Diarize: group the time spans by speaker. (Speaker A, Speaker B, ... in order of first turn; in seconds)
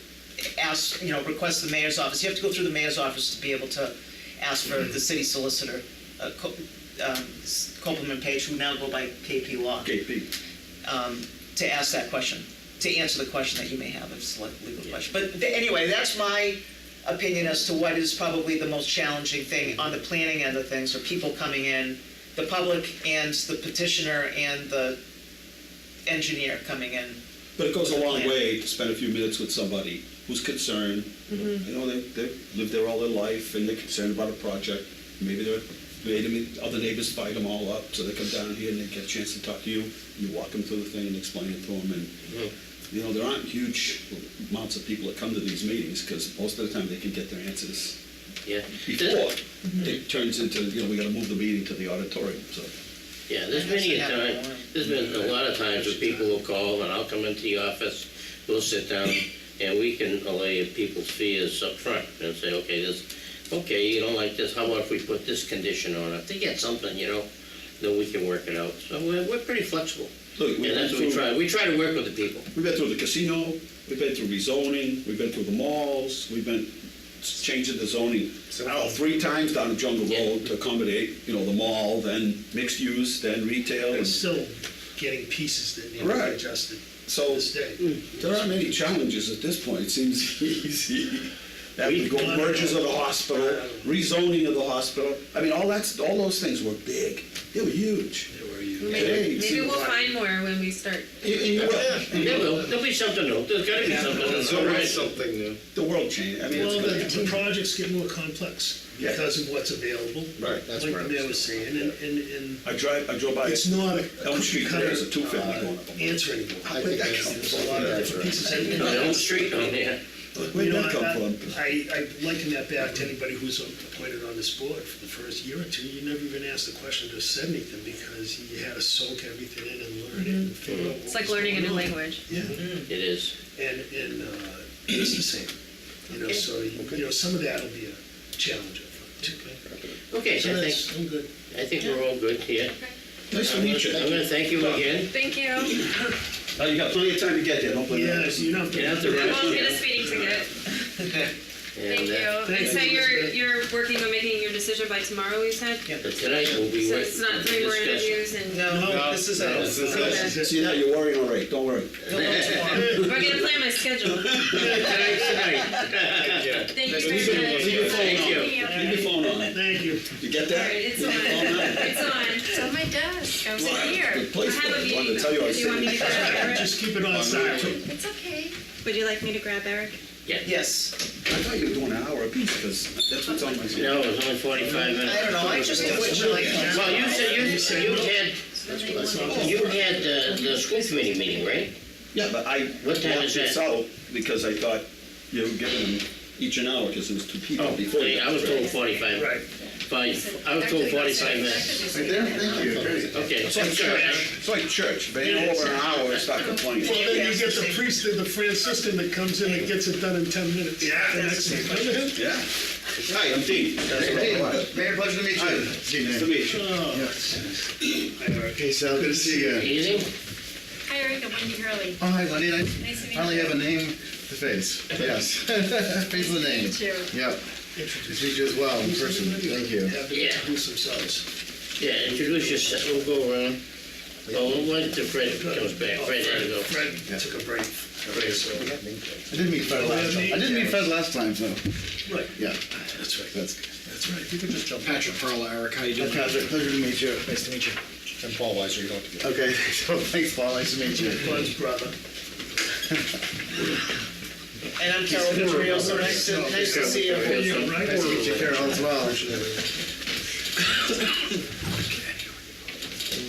Speaker A: 0.6-9.9, 10.8-25.0, 26.1-27.2, 27.8-28.4, 53.5-56.3, 151.0-151.3, 158.5-160.0, 162.0-163.2, 180.4-180.9, 184.9-187.4, 205.4-205.8, 206.5-207.9, 210.8-212.1, 254.8-257.8
Speaker B: 9.8-10.3, 27.6-42.1, 42.9-48.0, 48.8-52.7, 70.4-71.2, 72.5-84.2, 86.0-86.4, 87.0-87.5, 88.2-98.3, 98.9-99.9, 101.2-102.5, 105.7-107.5, 109.0-109.2, 110.4-110.7, 112.6-118.2, 120.5-121.5, 143.3-145.1, 146.6-149.7, 159.8-162.0, 166.9-172.5, 173.5-176.5, 177.1-177.7, 181.2-184.9, 185.7-187.5, 189.3-189.7, 192.1-198.8, 203.4-207.0, 212.1-212.4, 213.0-214.7, 215.3-216.7
Speaker C: 48.4-49.3, 53.3-67.3, 67.8-72.5, 80.1-80.3, 91.8-92.5, 101.7-105.0, 118.6-120.0, 130.6-131.0, 132.6-133.3, 136.2-136.4, 140.1-140.9, 141.5-142.7, 143.3-145.1, 148.7-149.8, 151.7-152.8, 156.0-158.2, 159.4-159.8, 162.1-162.9, 164.5-168.7, 183.7-188.4, 189.2-191.7, 192.8-193.7, 197.6-201.9, 203.1-204.3, 213.9-214.3, 219.5-220.1, 230.1-230.5, 231.8-233.6, 234.3-236.8, 238.1-238.4
Speaker D: 83.8-88.8, 92.1-94.0, 98.3-100.1, 106.5-112.7, 113.4-119.8, 120.4-132.6, 133.5-135.5, 136.1-139.6, 140.3-141.3, 147.9-150.4, 152.4-153.4, 158.7-160.7, 162.7-163.1, 164.5-165.4, 168.5-170.2, 176.0-177.8, 184.6-185.0, 185.6-190.3, 199.1-199.5, 203.9-204.3, 205.2-205.8, 206.8-212.2, 216.4-220.1, 227.7-231.2, 232.0-232.9, 234.3-234.6, 235.1-240.9, 242.1-244.9, 250.9-251.9, 255.3-259.4
Speaker E: 98.8-101.1, 131.0-132.2, 145.1-145.8, 149.1-150.5, 151.8-159.0, 159.6-160.4, 162.9-165.7, 166.7-169.3, 170.4-176.8, 177.7-180.0, 188.5-191.6, 198.2-199.2, 200.0-203.2, 220.9-222.0, 222.8-223.7, 226.1-227.2
Speaker F: 101.3-102.5, 103.8-105.6, 110.4-111.9, 117.0-118.3, 158.9-160.1, 166.3-167.9, 177.1-177.8, 201.9-203.2, 213.8-217.2, 218.5-219.7, 222.0-227.4, 228.1-230.0, 239.3-241.6, 242.3-242.6, 243.2-243.7, 244.3-245.2, 245.9-247.3, 249.2-251.5, 255.3-259.5
Speaker G: 244.8-249.2